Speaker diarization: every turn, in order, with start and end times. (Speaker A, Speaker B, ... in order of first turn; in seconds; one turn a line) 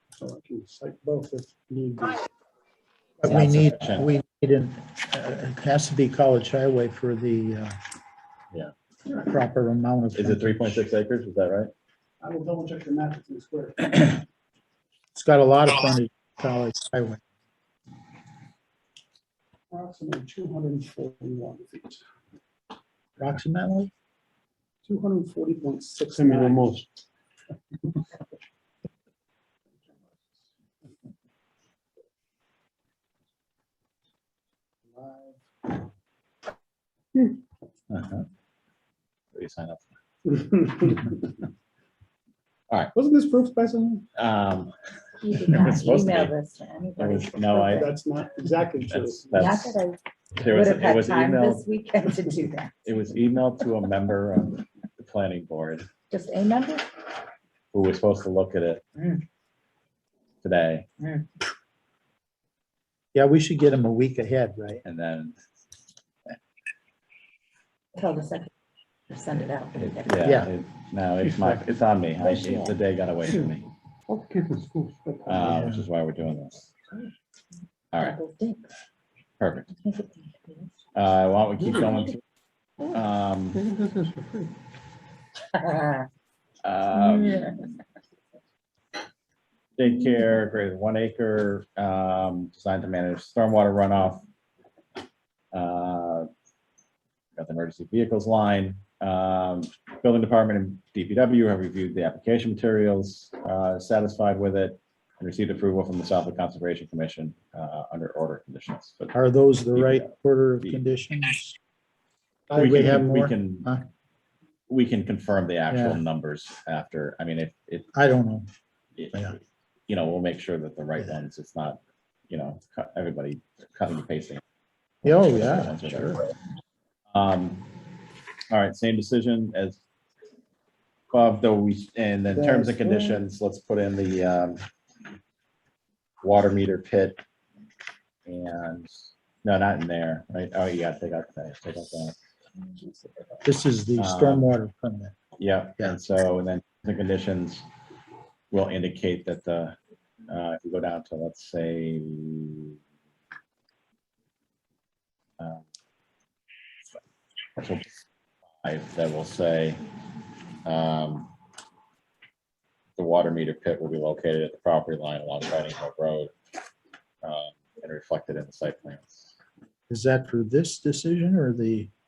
Speaker A: 0.2-2.2
Speaker B: 3.2-7.8
Speaker C: 3.2-4.2
Speaker B: 9.2-10.9
Speaker C: 10.1-11.7
Speaker A: 12.2-14.2
Speaker B: 15.2-17.2
Speaker A: 19.7-22.0
Speaker B: 23.2-23.9
Speaker A: 24.9-26.7
Speaker D: 26.1-26.9
Speaker A: 34.9-35.8
Speaker C: 37.9-38.2
Speaker C: 39.3-39.9
Speaker A: 40.3-41.3
Speaker A: 43.0-44.0
Speaker C: 44.2-44.7
Speaker E: 45.2-47.9
Speaker C: 45.4-46.4
Speaker C: 47.0-47.9
Speaker A: 47.5-49.6
Speaker C: 48.9-49.8
Speaker E: 49.3-52.8
Speaker C: 50.4-51.7
Speaker C: 52.9-55.9
Speaker E: 56.1-56.9
Speaker C: 57.7-58.8
Speaker E: 59.0-59.2
Speaker C: 60.4-60.9
Speaker E: 61.0-61.3
Speaker B: 63.1-64.8
Speaker C: 64.8-65.4
Speaker E: 68.0-68.5
Speaker E: 69.1-70.1
Speaker C: 69.8-73.7
Speaker B: 70.2-70.5
Speaker D: 72.2-72.7
Speaker D: 74.1-75.8
Speaker C: 75.3-76.7
Speaker C: 77.9-78.2
Speaker E: 78.0-78.7
Speaker C: 79.4-79.7
Speaker E: 79.7-80.7
Speaker C: 81.0-82.2
Speaker D: 81.6-82.1
Speaker C: 82.9-83.6
Speaker D: 83.5-84.6
Speaker E: 85.5-86.1
Speaker C: 86.6-87.6
Speaker E: 86.9-87.5
Speaker C: 89.8-94.2
Speaker C: 95.5-96.3
Speaker C: 97.4-109.2
Speaker B: 109.1-111.6
Speaker C: 109.8-110.8
Speaker B: 112.5-113.8
Speaker C: 112.5-113.7
Speaker C: 114.7-117.9
Speaker B: 115.7-116.0
Speaker B: 117.9-118.5
Speaker C: 119.0-119.4
Speaker C: 119.9-124.4
Speaker C: 125.0-126.3
Speaker B: 125.0-126.2
Speaker C: 127.1-127.7
Speaker C: 128.5-129.8
Speaker C: 131.1-134.6
Speaker A: 132.3-133.2
Speaker C: 136.2-137.2
Speaker C: 138.3-138.9
Speaker C: 139.4-142.2
Speaker B: 143.4-145.2
Speaker C: 144.0-144.5
Speaker C: 145.4-147.7
Speaker C: 148.5-149.8
Speaker C: 150.3-152.8
Speaker C: 155.4-155.7
Speaker C: 157.6-158.0
Speaker C: 158.6-159.8
Speaker C: 160.7-161.3
Speaker C: 163.0-166.3
Speaker C: 167.2-169.3
Speaker B: 169.9-171.9